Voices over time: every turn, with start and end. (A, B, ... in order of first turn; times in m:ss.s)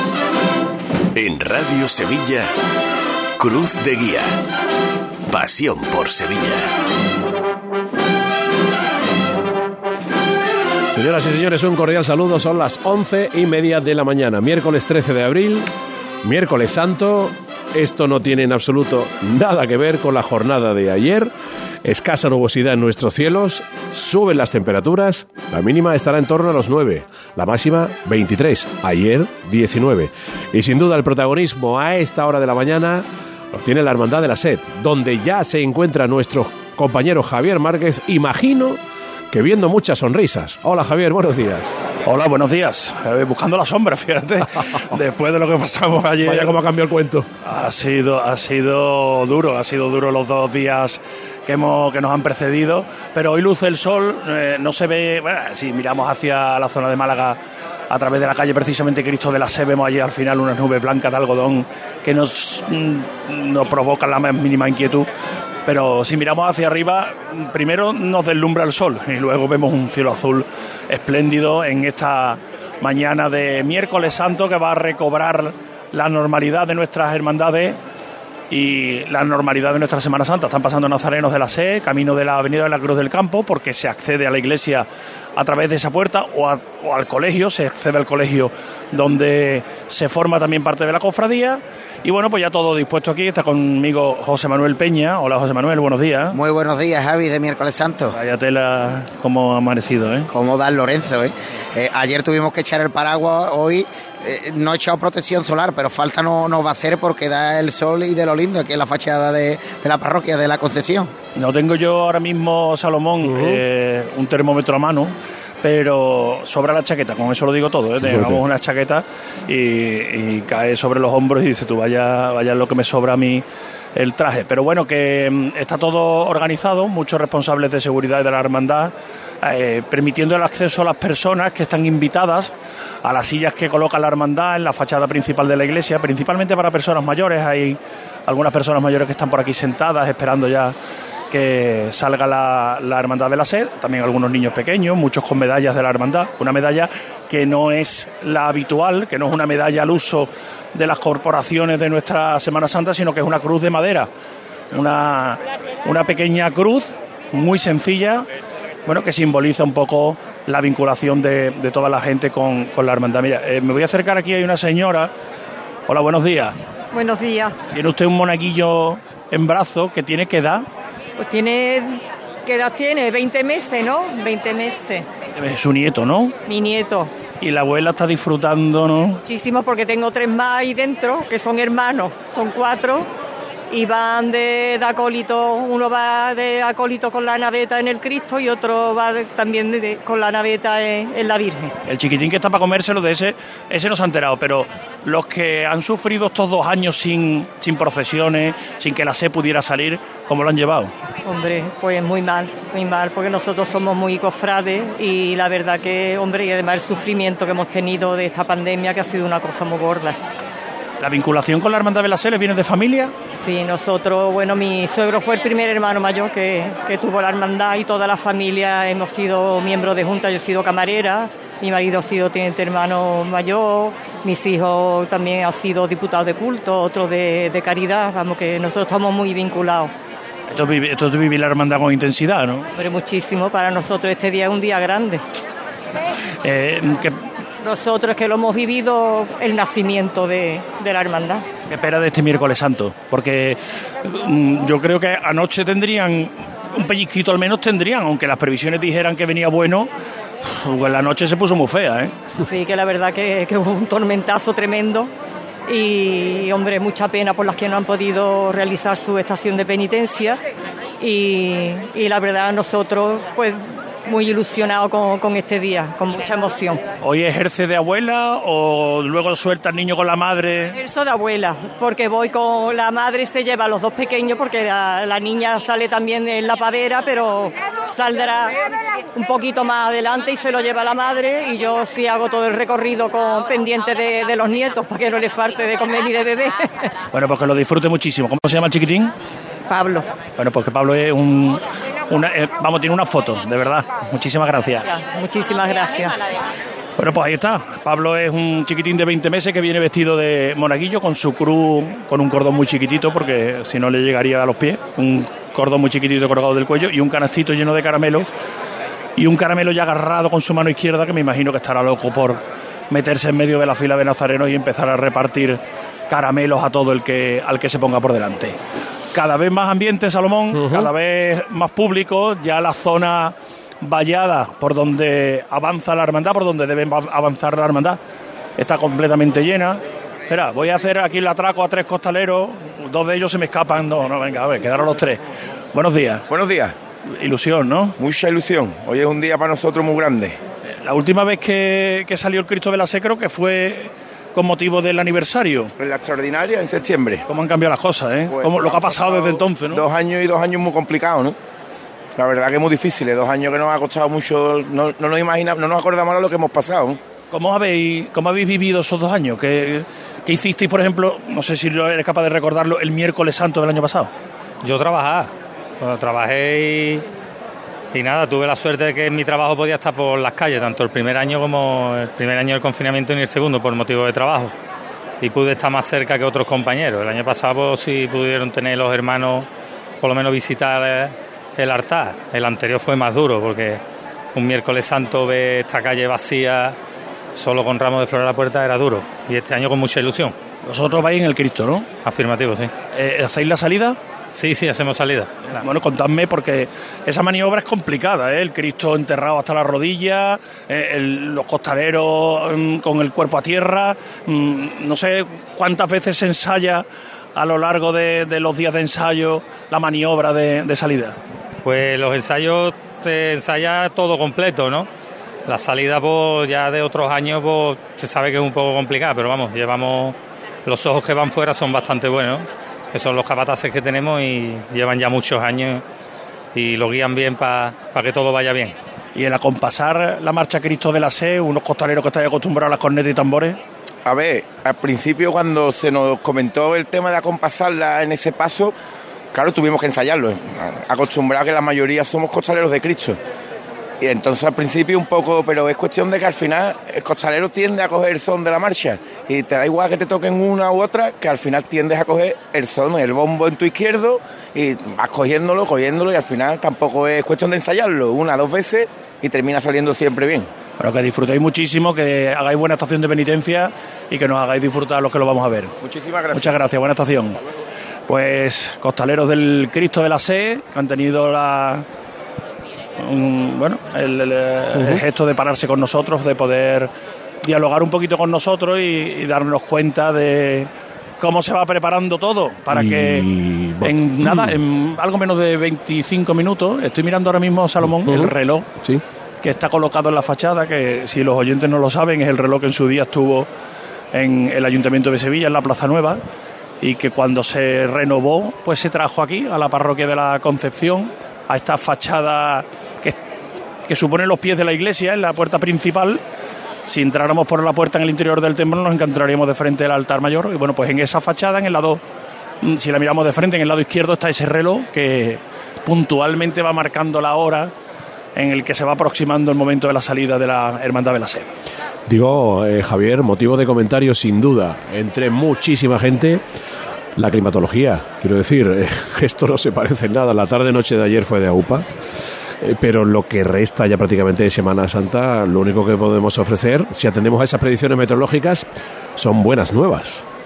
0:01.1-0:02.5 A
0:03.4-0:04.4 A
0:05.3-0:06.7 A
0:10.9-0:15.7 B
0:16.2-0:21.3 B
0:21.8-0:38.8 B
0:39.3-0:41.7 B
0:42.0-0:46.6 C
0:46.2-0:47.3 B
0:47.4-0:57.4 C
0:57.9-1:05.1 C
1:05.6-1:17.8 C
1:18.5-1:36.4 C
1:36.3-1:38.2 D
1:38.1-1:40.3 C
1:40.3-1:51.1 D
1:51.4-2:03.4 C
1:53.2-1:53.6 B
1:58.0-1:58.4 B
2:03.9-2:12.5 C
2:13.0-2:20.7 C
2:21.3-2:34.1 C
2:34.7-2:38.2 C
2:38.8-2:45.1 C
2:45.9-2:46.6 C
2:46.9-2:47.6 E
2:47.7-2:50.6 C
2:51.2-2:55.1 E
2:55.4-2:56.4 C
2:56.4-2:57.1 E
2:57.4-2:59.2 C
2:59.2-3:03.1 E
3:03.7-3:11.7 E
3:11.9-3:20.9 C
3:21.2-3:30.2 E
3:31.0-3:33.1 C
3:33.3-3:49.9 E
3:50.5-3:52.7 C
3:52.7-3:55.2 E
3:56.4-3:57.2 C
3:57.6-4:01.4 E
4:01.7-4:09.9 C
4:10.4-4:12.1 C
4:12.4-4:15.1 E
4:15.7-4:20.4 E
4:21.0-4:26.8 E
4:27.0-4:30.8 C
4:30.7-4:38.6 E
4:39.1-4:46.9 E
4:47.1-4:49.1 C
4:49.7-4:50.1 E
4:50.4-4:54.9 C
4:54.8-4:56.2 E
4:57.0-5:08.3 C
5:09.2-5:18.6 C
5:19.1-5:28.0 C
5:20.5-5:20.9 B
5:28.6-5:35.2 C
5:35.7-5:36.3 C
5:36.3-5:36.7 F
5:37.0-5:38.0 C
5:38.0-5:40.4 F
5:40.7-5:45.7 C
5:45.8-5:47.2 F
5:47.3-5:49.8 C
5:48.3-5:51.3 F
5:52.2-5:57.0 F
5:57.3-6:04.1 C
6:04.6-6:05.3 G
6:05.8-6:07.0 G
6:07.9-6:14.5 G
6:15.2-6:19.5 G
6:20.0-6:23.8 G
6:24.3-6:26.8 G
6:27.3-6:30.3 G
6:30.6-6:31.9 C
6:32.0-6:32.7 G
6:32.9-6:34.0 C
6:34.3-6:35.5 G
6:35.5-6:46.8 C
6:47.4-6:51.2 C
6:51.6-6:54.9 G
6:55.4-7:05.8 G
7:06.5-7:08.8 G
7:09.2-7:13.6 C
7:14.0-7:18.7 F
7:19.3-7:23.2 F
7:24.0-7:40.5 F
7:40.8-7:45.8 C
7:45.8-7:46.6 F
7:46.3-7:47.4 C
7:48.1-7:51.8 C
7:53.0-7:56.9 C
7:54.7-7:55.0 B
7:57.4-8:03.3 C
8:02.7-8:04.6 B
8:03.8-8:08.7 C
8:07.8-8:09.0 B
8:09.4-8:13.5 C
8:14.1-8:16.2 C
8:16.8-8:23.2 C
8:23.9-8:26.2 C
8:26.9-8:32.0 C
8:32.6-8:37.7 C
8:38.4-8:41.5 C
8:42.1-8:46.4 B
8:47.2-8:51.8 B
8:52.6-8:58.6 B
8:59.2-9:00.2 B